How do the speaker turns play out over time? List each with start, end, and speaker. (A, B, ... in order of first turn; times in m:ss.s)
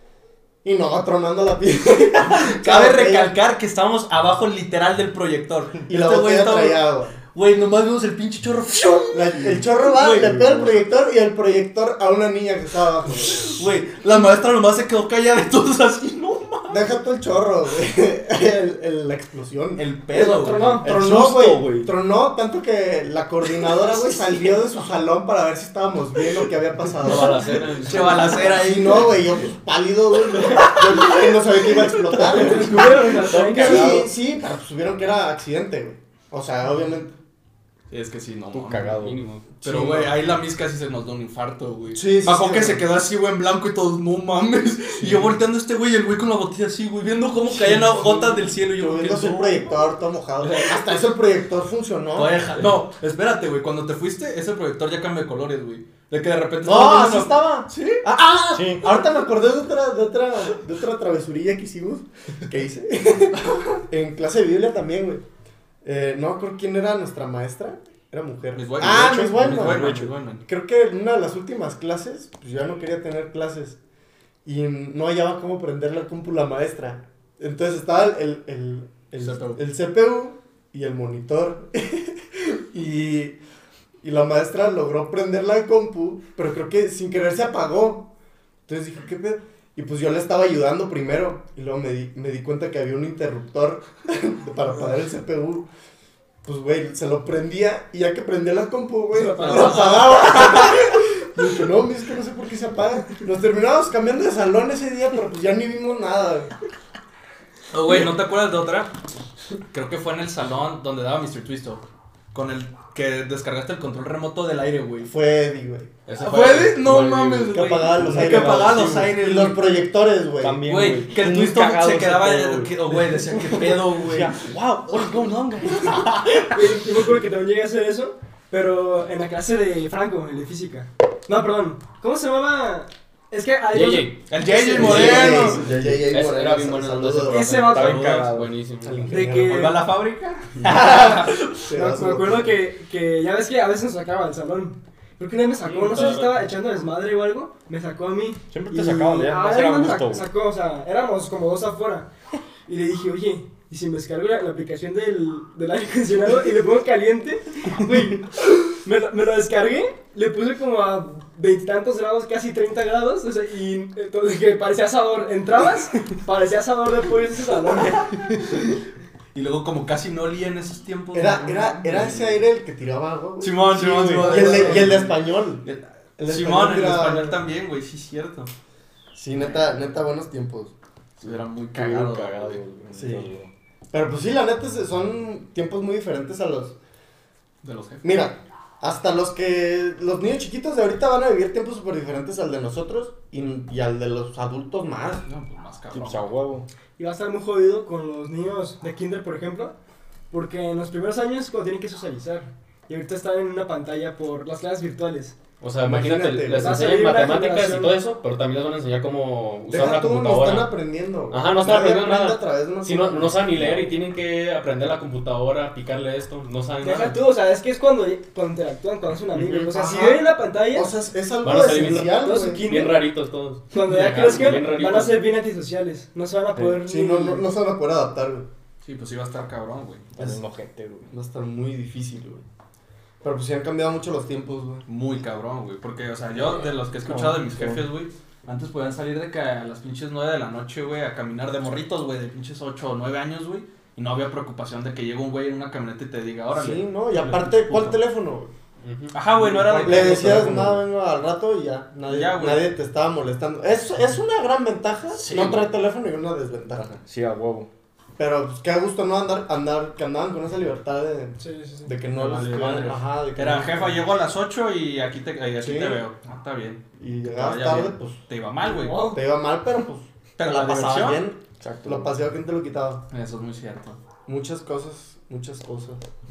0:00.6-0:03.4 A
0:02.2-0:06.8 B
0:05.9-0:07.2 A
0:07.3-0:10.3 B
0:09.1-0:13.5 A
0:10.2-0:10.8 C
0:13.1-0:16.9 B
0:16.7-0:37.2 A
0:19.8-0:20.8 B
0:20.2-0:20.9 D
0:20.7-0:21.9 C
0:27.0-0:28.5 E
0:27.8-0:29.3 B
0:30.2-0:33.5 B
0:32.2-0:34.1 D
0:33.0-0:34.1 C
0:37.9-0:49.7 B
0:38.5-0:39.2 C
0:39.0-0:39.5 E
0:39.6-0:40.2 A
0:41.9-0:42.8 A
0:45.0-0:45.3 C
0:47.5-0:52.6 A
0:50.4-0:50.8 B
0:52.1-0:58.0 B
0:56.6-1:05.2 A
0:58.5-0:58.9 C
1:05.8-1:13.8 A
1:08.5-1:10.4 B
1:09.0-1:10.1 C
1:14.4-1:23.4 A
1:19.2-1:19.6 B
1:24.0-1:28.1 A
1:28.7-1:35.7 A
1:36.4-1:46.5 A
1:39.1-1:40.1 D
1:39.4-1:40.8 B
1:47.7-1:49.0 B
1:49.7-1:55.1 B
1:55.0-1:55.9 A
1:56.0-1:57.9 E
1:56.2-1:59.7 B
1:57.5-2:00.7 A
1:57.7-1:59.1 C
2:00.4-2:06.0 C
2:00.6-2:06.8 B
2:06.5-2:15.5 D
2:13.7-2:14.2 E
2:14.3-2:15.6 B
2:14.8-2:17.4 A
2:14.8-2:16.0 C
2:16.0-2:19.4 E
2:17.2-2:18.1 D
2:17.6-2:18.5 C
2:17.8-2:18.4 B
2:18.8-2:19.8 A
2:19.0-2:19.8 D
2:19.3-2:21.6 B
2:20.7-2:21.0 D
2:20.7-2:22.6 A
2:21.7-2:32.1 D
2:25.6-2:26.5 E
2:28.5-2:30.2 C
2:32.6-2:48.1 D
2:48.1-2:48.6 B
2:49.3-2:52.4 B
2:51.1-2:55.6 A
2:53.4-2:58.5 B
2:53.7-2:55.0 C
2:56.2-2:57.4 A
2:59.1-3:00.7 A
3:01.2-3:02.6 B
3:01.2-3:03.5 C
3:02.9-3:03.3 A
3:03.9-3:06.8 A
3:07.6-3:08.2 B
3:08.0-3:15.2 A
3:15.2-3:16.3 B
3:15.9-3:16.7 C
3:17.0-3:19.7 D
3:20.3-3:25.4 D
3:25.6-3:30.7 E
3:25.8-3:27.0 A
3:26.6-3:28.0 D
3:29.7-3:33.9 A
3:31.3-3:37.2 E
3:36.8-3:40.9 D
3:39.4-3:39.7 E
3:39.7-3:42.9 A
3:41.4-3:45.2 E
3:41.8-3:43.1 D
3:43.7-3:47.5 D
3:46.6-3:46.8 C
3:46.8-3:48.5 A
3:48.8-3:50.1 B
3:50.1-3:51.1 C
3:51.1-3:52.4 A
3:53.2-3:54.9 A
3:54.9-4:08.0 B
3:57.1-3:57.7 C
3:57.5-3:57.8 A
4:06.5-4:08.5 A
4:08.8-4:09.1 E
4:09.1-4:10.4 B
4:09.4-4:10.8 C
4:09.8-4:17.0 A
4:12.1-4:12.7 B
4:15.2-4:15.6 B
4:16.9-4:17.7 C
4:18.2-4:24.1 A
4:21.4-4:21.9 D
4:22.2-4:29.1 B
4:25.6-4:26.0 A
4:27.0-4:28.2 A
4:28.6-4:29.2 D
4:28.9-4:33.0 A
4:30.4-4:31.2 B
4:31.6-4:32.1 C
4:33.1-4:34.0 B
4:34.2-4:36.0 A